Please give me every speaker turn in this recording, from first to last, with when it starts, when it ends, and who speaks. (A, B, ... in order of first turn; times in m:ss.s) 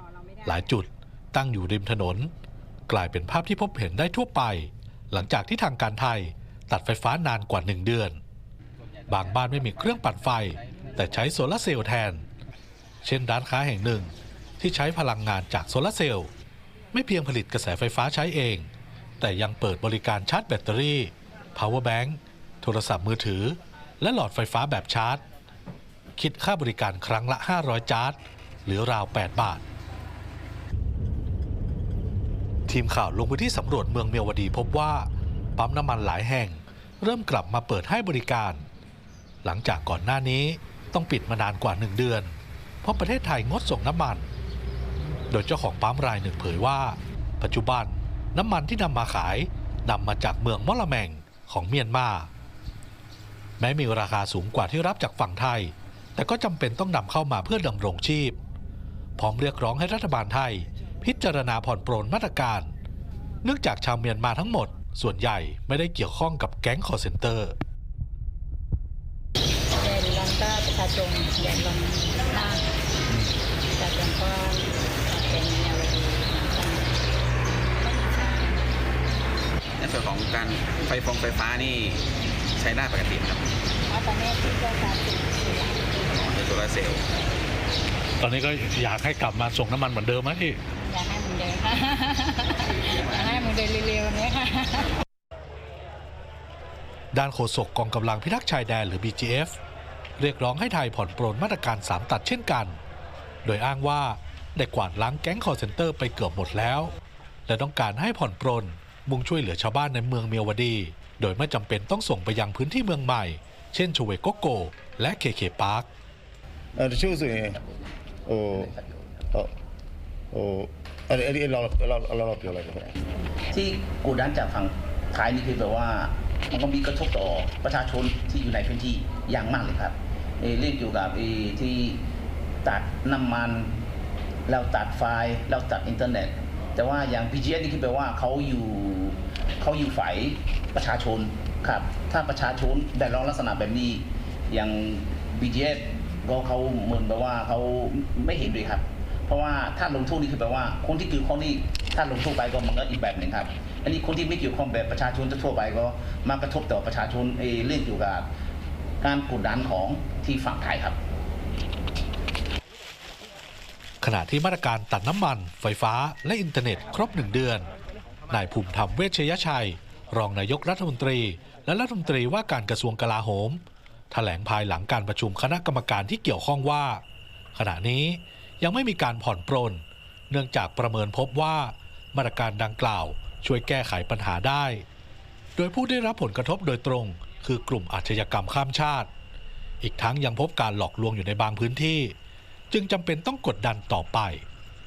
0:00.4-0:02.3 A
0:02.9-0:08.2 A
0:09.1-0:12.2 A
0:13.0-0:16.3 A
0:16.9-0:25.2 A
0:26.2-0:29.6 A
0:32.7-0:38.6 A
0:39.4-0:44.3 A
0:45.3-0:52.3 A
0:53.6-0:58.4 A
0:59.2-1:02.7 A
1:03.4-1:07.5 A
1:09.8-1:12.6 B
1:13.1-1:13.3 A
1:13.8-1:17.0 B
1:17.7-1:18.7 B
1:19.8-1:22.0 C
1:22.6-1:23.4 C
1:23.9-1:26.2 B
1:26.2-1:27.0 C
1:28.2-1:30.6 A
1:30.8-1:34.9 B
1:37.1-1:39.6 A
1:40.2-1:42.8 A
1:43.4-1:46.9 A
1:47.4-1:55.9 A
1:56.8-1:57.6 D
1:58.2-1:59.5 D
2:00.3-2:03.0 D
2:03.5-2:12.0 E
2:12.6-2:13.8 E
2:14.5-2:38.3 E
2:39.0-2:41.0 E
2:44.0-2:47.7 A
2:48.3-2:57.0 A
2:57.5-3:04.8 A
3:05.6-3:09.1 A
3:09.8-3:12.2 A
3:12.7-3:14.4 A